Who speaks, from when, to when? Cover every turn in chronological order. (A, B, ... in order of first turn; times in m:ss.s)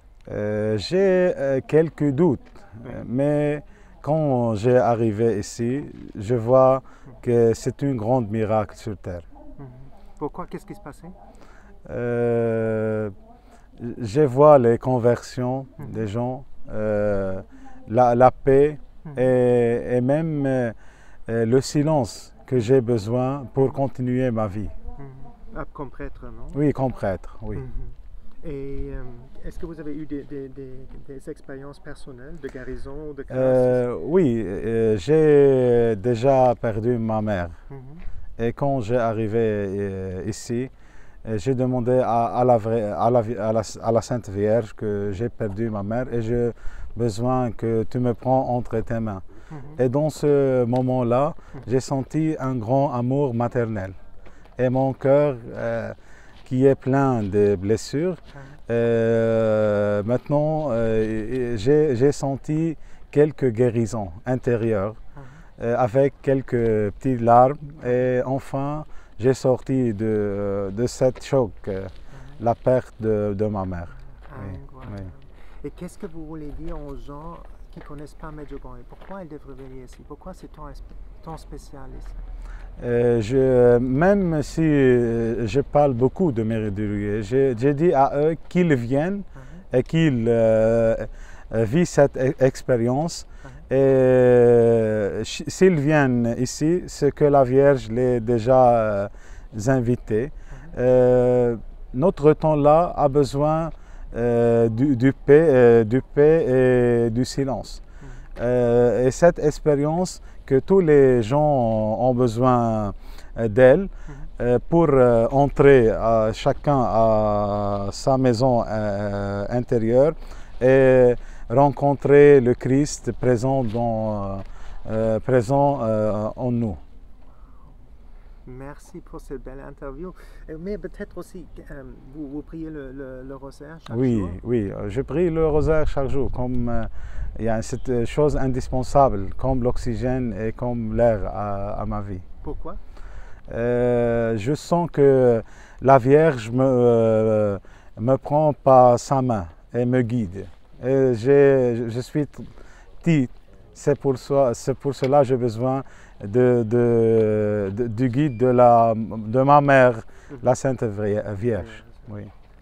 0:00.2-0:09.2 A
0:09.6-0:11.2 B
0:11.8-0:13.1 A
0:13.8-0:20.7 A
0:19.0-0:19.3 B
0:21.3-0:24.7 A
0:25.0-0:26.6 B
0:26.5-0:27.6 A
0:27.6-0:33.8 B
0:33.3-0:37.6 A
0:37.7-0:38.0 B
0:38.4-0:40.7 A
0:41.2-0:49.2 A
0:49.5-0:49.8 B
0:49.8-0:54.0 A
0:54.6-1:05.0 A
0:58.3-0:58.6 B
1:05.2-1:05.4 B
1:05.6-1:15.1 A
1:12.1-1:12.4 B
1:14.2-1:22.2 B
1:22.8-1:47.8 A
1:29.3-1:29.6 B
1:48.4-2:06.8 A
2:08.5-2:14.4 B
2:13.9-2:22.2 A
2:22.4-2:22.8 B
2:23.5-2:32.5 A
2:33.0-2:42.3 A
2:41.5-2:42.1 B